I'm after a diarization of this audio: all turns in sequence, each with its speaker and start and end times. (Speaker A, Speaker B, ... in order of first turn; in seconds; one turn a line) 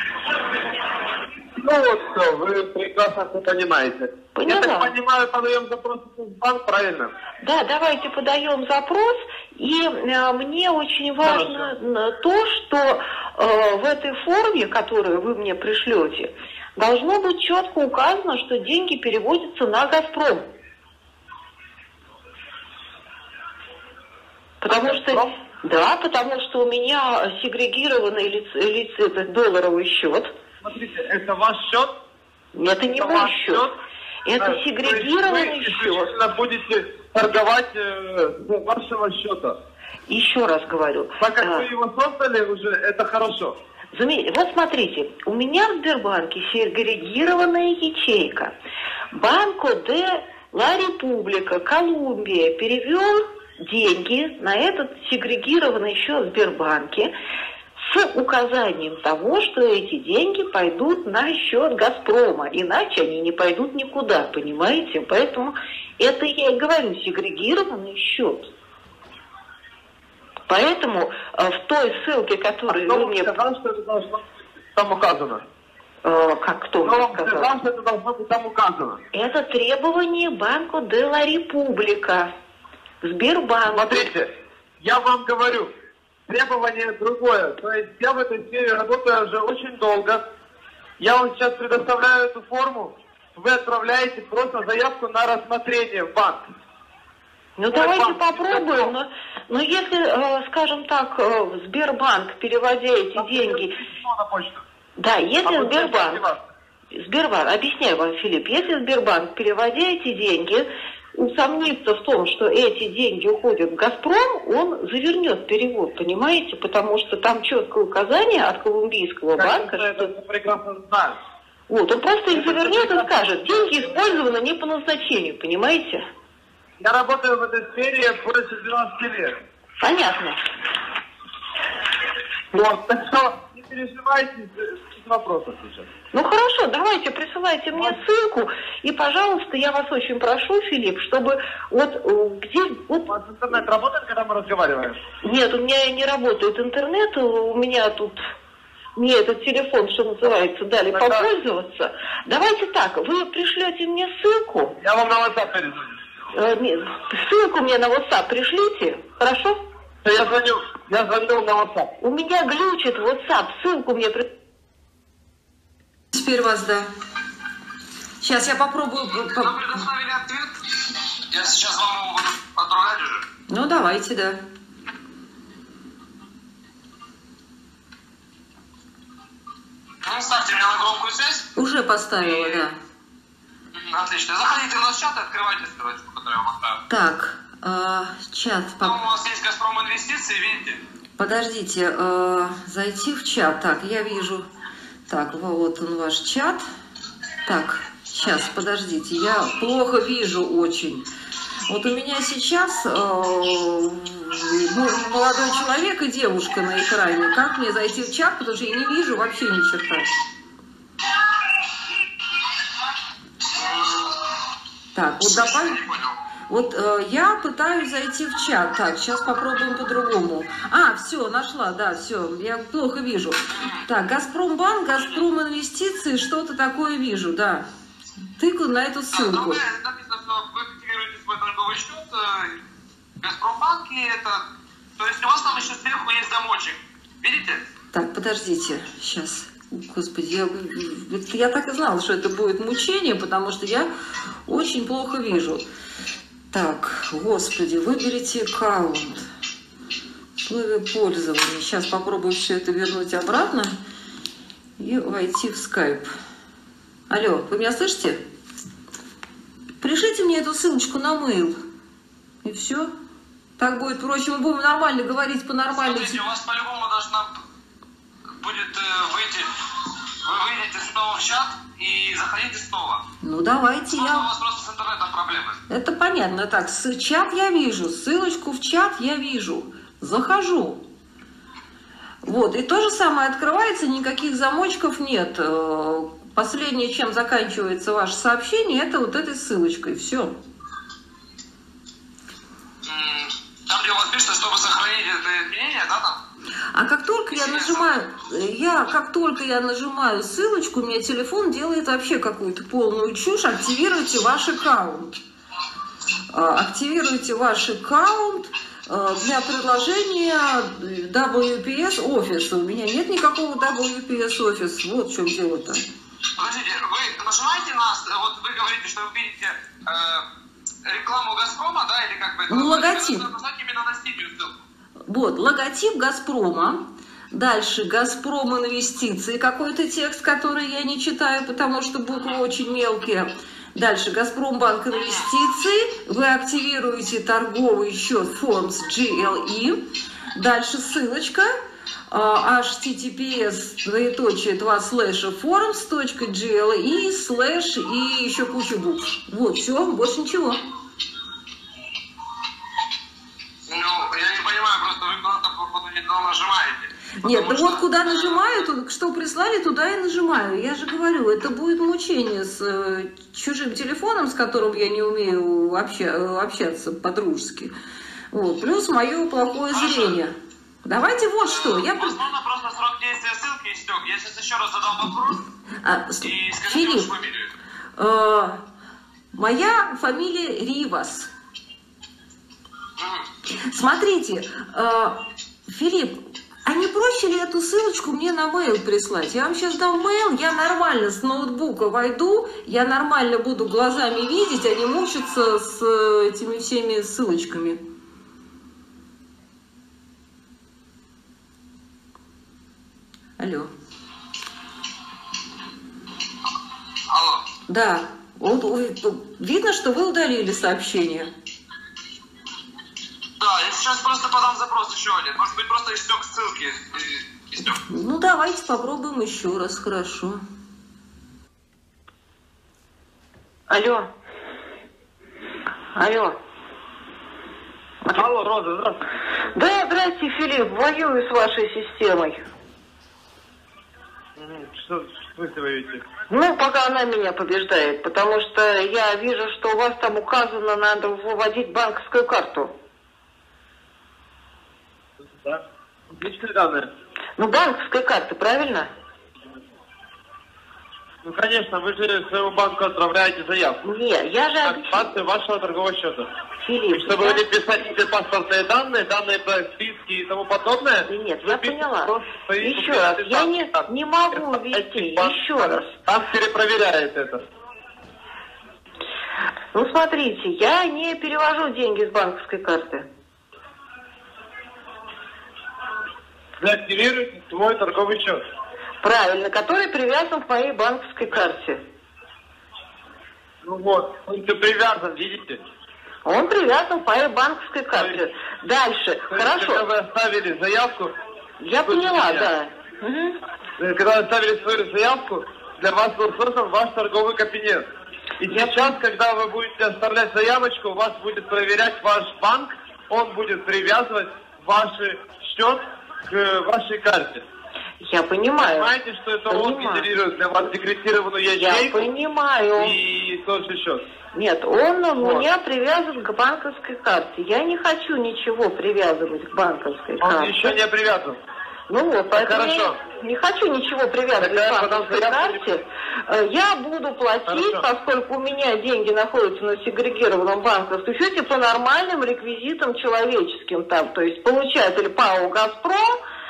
Speaker A: 1.4-7.1
Speaker B: 4.3-4.9
Speaker B: 7.4-20.5
Speaker A: 11.2-11.7
Speaker B: 24.6-30.3
Speaker A: 24.7-25.3
Speaker A: 30.6-31.9
Speaker B: 32.5-33.7
Speaker A: 32.9-33.7
Speaker B: 34.2-36.1
Speaker A: 34.4-39.6
Speaker B: 40.1-41.7
Speaker A: 41.2-43.5
Speaker B: 43.9-48.5
Speaker B: 49.1-57.1
Speaker B: 57.8-68.5
Speaker B: 70.5-73.3
Speaker A: 72.7-75.4
Speaker B: 76.0-77.5
Speaker A: 76.8-79.0
Speaker B: 79.1-82.3
Speaker B: 83.0-84.1
Speaker A: 83.7-84.3
Speaker A: 84.8-85.7
Speaker A: 86.3-90.2
Speaker A: 91.0-96.5
Speaker B: 97.6-103.8
Speaker A: 97.7-98.9
Speaker A: 103.1-104.6
Speaker B: 105.0-106.2
Speaker A: 105.4-106.4
Speaker B: 106.9-120.1
Speaker A: 119.3-121.2
Speaker B: 121.7-126.0
Speaker A: 122.3-124.2
Speaker A: 126.8-129.4
Speaker B: 129.8-130.4
Speaker A: 132.5-135.9
Speaker B: 136.1-143.6
Speaker A: 137.7-138.0
Speaker A: 143.1-145.0
Speaker B: 145.2-148.2
Speaker B: 148.9-154.8
Speaker A: 150.9-151.3
Speaker A: 154.8-156.0
Speaker B: 156.3-159.6
Speaker A: 160.0-161.9
Speaker B: 162.0-164.2
Speaker C: 166.1-166.9
Speaker C: 168.2-169.7
Speaker D: 169.2-170.6
Speaker D: 171.3-173.2
Speaker C: 173.5-174.4
Speaker D: 180.0-181.5
Speaker C: 181.6-182.8
Speaker D: 182.2-182.6
Speaker D: 183.7-186.8
Speaker C: 186.9-189.0
Speaker D: 188.8-190.8
Speaker C: 191.2-194.5
Speaker C: 195.1-196.6
Speaker C: 197.4-201.1
Speaker C: 201.7-210.1
Speaker D: 213.5-214.1
Speaker C: 214.9-215.9
Speaker D: 215.2-216.2
Speaker C: 216.5-227.7
Speaker D: 223.5-223.8
Speaker C: 228.4-229.6
Speaker D: 229.1-232.6
Speaker D: 233.2-237.7
Speaker C: 237.9-243.9
Speaker C: 244.4-245.7
Speaker C: 246.5-249.3
Speaker C: 250.4-253.8
Speaker C: 254.8-256.1
Speaker C: 257.1-258.2
Speaker C: 259.8-261.6
Speaker C: 262.4-262.9
Speaker C: 263.6-266.2
Speaker D: 265.7-267.4
Speaker D: 268.4-269.5
Speaker D: 270.2-273.0
Speaker C: 273.2-274.3
Speaker D: 273.9-275.6
Speaker C: 275.7-280.8
Speaker C: 282.2-290.4
Speaker D: 292.8-296.2
Speaker C: 296.7-305.2
Speaker D: 297.3-297.9
Speaker C: 306.3-315.8
Speaker D: 316.4-320.2
Speaker D: 320.8-324.6
Speaker C: 322.5-323.3
Speaker C: 325.1-339.8
Speaker C: 340.3-341.5
Speaker C: 342.1-350.6
Speaker D: 353.7-358.6
Speaker C: 357.2-367.7
Speaker C: 368.3-372.2
Speaker D: 369.7-370.2
Speaker D: 371.4-375.4
Speaker C: 375.8-377.1
Speaker D: 376.2-377.5
Speaker C: 378.0-378.7
Speaker C: 379.3-381.3
Speaker D: 383.0-383.3
Speaker C: 383.5-397.8
Speaker C: 403.4-403.7
Speaker D: 407.1-407.5
Speaker C: 407.7-411.3
Speaker D: 413.4-417.8
Speaker C: 417.6-420.4
Speaker B: 423.7-424.1
Speaker B: 425.9-426.4
Speaker A: 428.1-429.0
Speaker B: 429.5-432.4
Speaker A: 434.4-436.0
Speaker B: 436.3-442.7
Speaker A: 445.2-446.9
Speaker B: 447.4-448.9
Speaker A: 451.2-453.8
Speaker B: 453.8-455.1
Speaker A: 454.6-456.3
Speaker B: 456.6-457.4
Speaker A: 456.9-467.4
Speaker B: 461.1-465.9
Speaker B: 469.7-473.1
Speaker A: 476.6-478.4
Speaker B: 479.0-481.8
Speaker A: 483.6-485.6
Speaker B: 486.2-489.8
Speaker A: 487.9-488.2
Speaker A: 489.3-491.1
Speaker B: 491.6-493.4
Speaker A: 491.9-492.5
Speaker A: 493.8-497.8
Speaker A: 498.4-507.4
Speaker B: 498.5-498.9
Speaker B: 508.0-508.9
Speaker A: 508.6-512.1
Speaker B: 509.5-510.1
Speaker B: 511.5-513.0
Speaker A: 512.8-514.0
Speaker B: 514.3-520.8
Speaker A: 515.2-515.5
Speaker A: 520.2-521.4
Speaker B: 521.9-536.2
Speaker A: 522.3-523.0
Speaker A: 524.3-525.6
Speaker A: 527.5-527.8